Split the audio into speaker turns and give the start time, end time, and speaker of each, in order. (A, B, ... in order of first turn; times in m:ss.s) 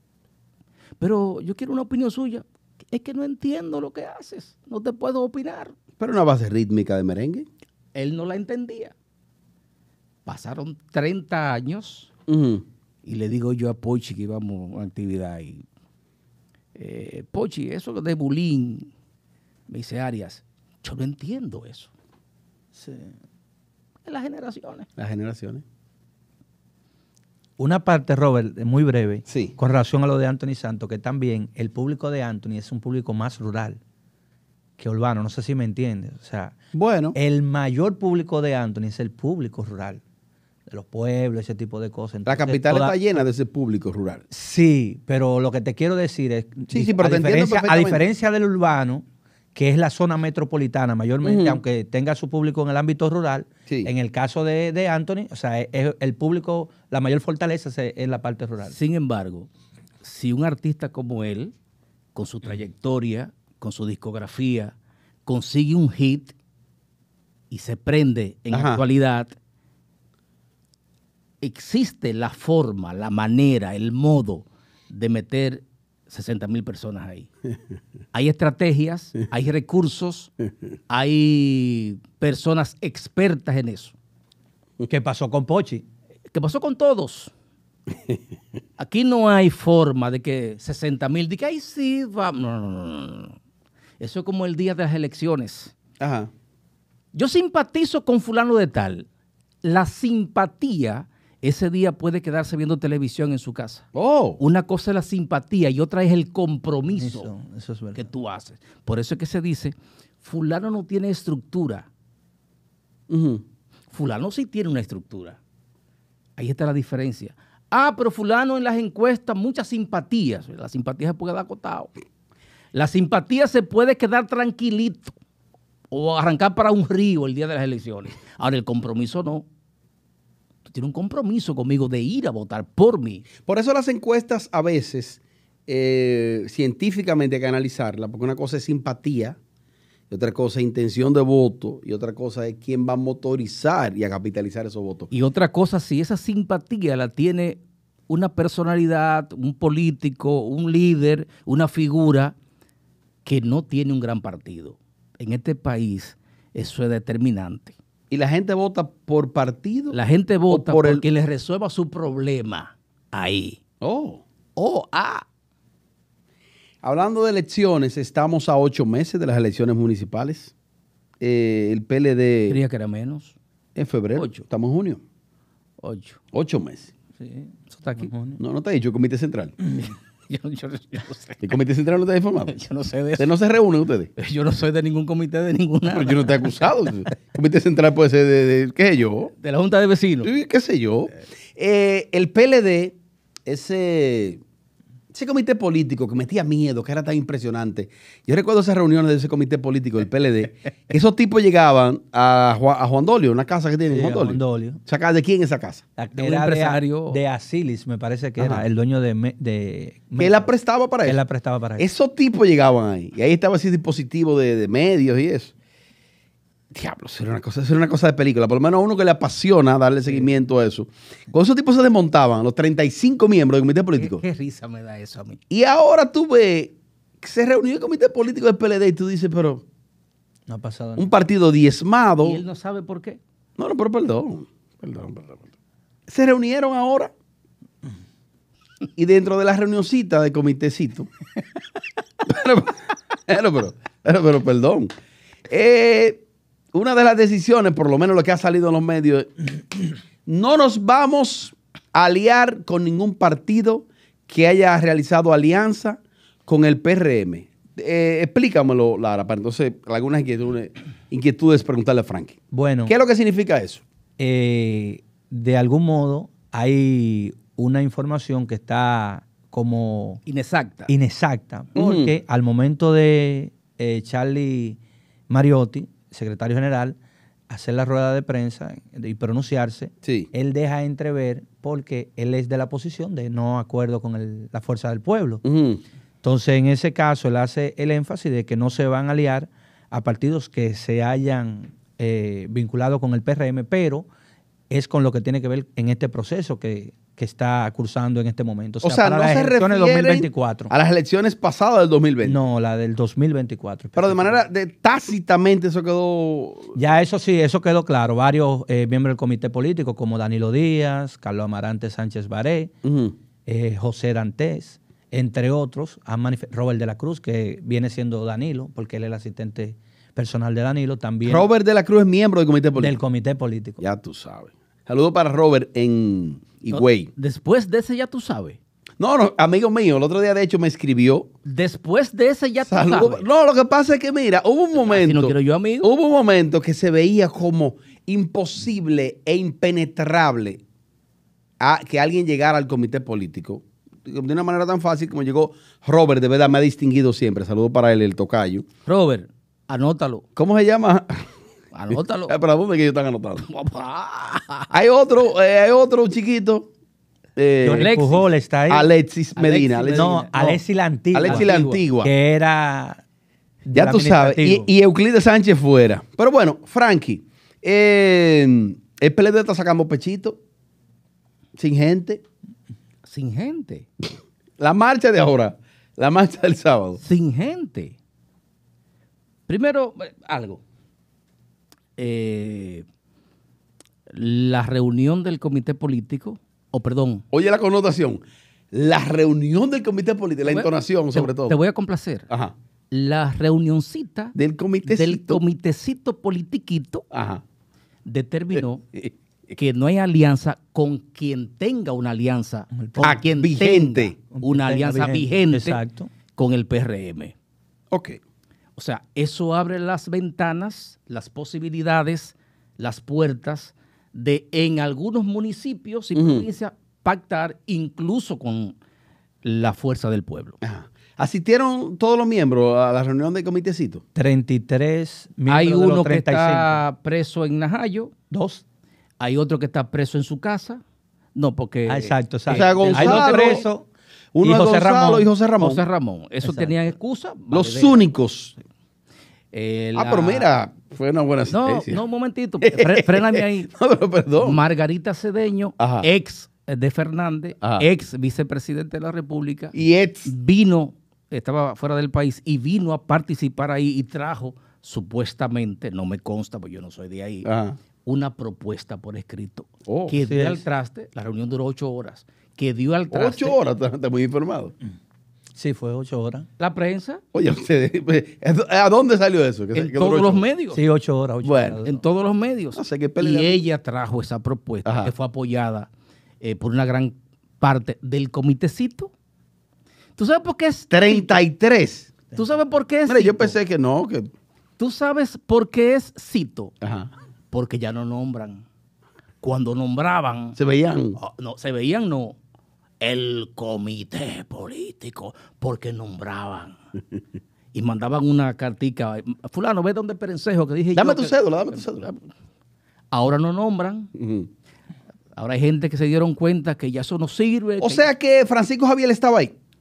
0:01.0-0:05.7 A
0:06.0-0:07.5 B
0:08.0-0:08.9 A
0:10.3-0:12.1 A
0:12.3-0:12.6 B
0:13.0-0:15.6 A
0:16.8-0:18.9 A
0:19.7-0:21.9 A
0:22.8-0:23.1 C
0:24.1-0:24.9 A
0:25.0-0:25.6 B
0:27.6-0:33.8 C
0:29.3-0:29.6 B
0:34.8-0:36.6 C
0:36.7-0:37.2 B
0:37.2-0:40.0 C
0:40.7-0:43.0 C
0:42.3-0:44.2 B
0:44.3-0:58.8 C
0:46.7-0:48.0 B
0:51.2-0:51.6 B
0:58.6-0:59.5 A
1:00.0-1:01.5 A
1:02.2-1:04.7 A
1:05.3-1:06.4 A
1:07.5-1:09.4 A
1:08.5-1:08.8 B
1:11.4-1:17.3 A
1:18.1-1:20.3 A
1:20.9-1:23.9 A
1:24.9-1:25.8 C
1:26.3-1:27.3 A
1:27.9-1:28.2 B
1:28.8-1:33.4 A
1:34.0-1:35.7 A
1:36.0-1:36.3 B
1:37.1-1:39.1 A
1:39.6-1:43.9 A
1:44.0-1:44.4 B
1:44.4-1:47.3 A
1:47.0-1:48.0 C
1:48.0-1:51.9 A
1:53.1-1:53.4 B
1:53.9-1:55.4 A
1:56.4-2:01.9 A
2:02.7-2:05.2 A
2:05.9-2:09.5 A
2:10.6-2:13.3 A
2:13.4-2:19.4 B
2:20.1-2:25.1 B
2:25.1-2:32.4 A
2:33.2-2:37.8 A
2:38.1-2:40.0 B
2:39.9-2:43.6 A
2:40.5-2:41.0 B
2:43.8-2:44.2 B
2:44.6-2:45.2 A
2:46.8-2:50.5 B
2:51.2-2:52.6 B
2:52.5-2:53.4 A
2:53.8-2:55.0 B
2:54.2-2:54.4 A
2:55.8-2:56.2 A
2:56.3-2:56.9 B
2:57.2-2:58.4 C
2:57.7-2:58.1 A
2:58.4-2:59.6 B
2:59.8-3:01.6 A
3:01.4-3:02.6 B
3:02.5-3:03.3 A
3:03.2-3:04.1 B
3:04.2-3:06.7 A
3:05.9-3:09.3 B
3:09.4-3:10.3 A
3:10.2-3:14.4 B
3:15.1-3:25.8 B
3:23.9-3:24.8 C
3:26.0-3:30.5 C
3:26.2-3:27.2 A
3:28.4-3:28.6 B
3:30.2-3:31.2 B
3:31.0-3:31.9 C
3:31.8-3:35.5 B
3:36.7-3:44.2 B
3:44.0-3:45.4 A
3:45.5-3:49.6 B
3:50.5-3:51.1 C
3:51.0-3:52.4 B
3:52.2-3:53.2 A
3:53.6-3:55.4 B
3:56.1-3:57.1 B
3:59.0-4:01.1 B
4:02.2-4:04.9 B
4:05.5-4:06.2 B
4:06.7-4:23.8 B
4:22.5-4:22.9 C
4:24.2-4:30.2 C
4:30.3-4:30.9 A
4:30.9-4:37.0 C
4:31.8-4:32.1 B
4:37.5-4:45.4 C
4:40.0-4:40.3 B
4:45.4-4:45.8 B
4:46.2-4:54.1 C
4:54.7-5:00.7 C
4:58.8-5:02.4 B
5:02.2-5:04.4 C
5:04.0-5:06.8 B
5:06.8-5:12.7 C
5:12.8-5:13.2 B
5:13.5-5:21.5 C
5:21.2-5:23.0 B
5:22.8-5:23.8 C
5:23.8-5:27.1 B
5:26.7-5:28.6 A
5:29.0-5:31.3 B
5:31.4-5:33.3 A
5:32.7-5:40.6 B
5:34.8-5:35.9 A
5:41.6-5:48.7 B
5:48.9-5:50.2 A
5:50.4-5:51.3 B
5:51.7-5:52.4 A
5:51.9-5:53.5 B
5:53.4-5:54.7 A
5:54.7-5:56.7 B
5:57.4-5:57.9 B
5:57.6-5:58.9 C
5:57.7-5:58.3 A
5:58.7-6:00.6 B
5:59.4-6:00.3 A
5:59.9-6:03.0 C
6:01.1-6:02.1 B
6:01.2-6:01.8 A
6:03.6-6:04.7 C
6:03.7-6:10.4 B
6:11.6-6:12.2 B
6:13.0-6:13.9 A
6:14.6-6:17.0 B
6:17.0-6:18.0 A
6:19.5-6:20.6 A
6:22.0-6:22.8 A
6:24.1-6:27.2 A
6:27.3-6:28.2 B
6:28.7-6:31.6 B
6:30.4-6:32.3 A
6:32.9-6:37.0 A
6:34.4-6:35.4 B
6:37.1-6:37.4 B
6:38.0-6:38.8 A
6:39.5-6:45.8 A
6:42.8-6:43.1 C
6:43.0-6:44.1 B
6:44.3-6:46.1 C
6:46.3-6:47.3 A
6:47.9-6:48.2 B
6:48.8-6:58.8 A
6:56.2-6:56.5 B
6:59.4-7:00.6 A
7:00.6-7:04.0 B
7:04.2-7:06.8 C
7:05.5-7:08.1 A
7:08.3-7:08.6 C
7:09.2-7:10.8 A
7:11.4-7:13.7 A
7:11.9-7:13.9 C
7:12.5-7:13.7 B
7:14.3-7:15.8 B
7:14.4-7:15.3 C
7:15.6-7:18.0 A
7:17.5-7:18.6 B
7:19.5-7:20.5 A
7:20.0-7:22.0 B
7:21.5-7:23.7 A
7:22.6-7:24.6 B
7:24.4-7:37.5 A
7:25.8-7:26.1 B
7:27.6-7:27.9 B
7:29.8-7:30.3 B
7:37.4-7:37.8 B
7:38.0-7:43.6 A
7:39.9-7:40.2 B
7:40.2-7:40.6 C
7:43.1-7:44.7 B
7:45.6-7:46.5 C
7:46.6-7:47.2 A
7:47.3-7:50.5 B
7:49.8-7:50.8 A
7:50.7-7:52.0 C
7:51.4-7:51.8 B
7:51.8-7:55.9 A
7:52.8-7:53.6 B
7:54.8-7:55.1 B
7:56.4-7:59.1 A
8:00.2-8:01.3 A
8:00.9-8:02.3 B
8:02.3-8:03.6 A
8:03.1-8:04.3 B
8:04.8-8:06.7 A
8:06.8-8:07.1 B
8:07.5-8:08.6 A
8:09.4-8:10.6 A
8:10.6-8:11.2 B
8:11.2-8:12.4 A
8:13.0-8:16.8 A
8:17.7-8:22.2 A
8:21.0-8:22.1 B
8:23.1-8:24.1 A
8:24.2-8:24.5 B
8:25.4-8:28.1 A
8:27.8-8:29.5 B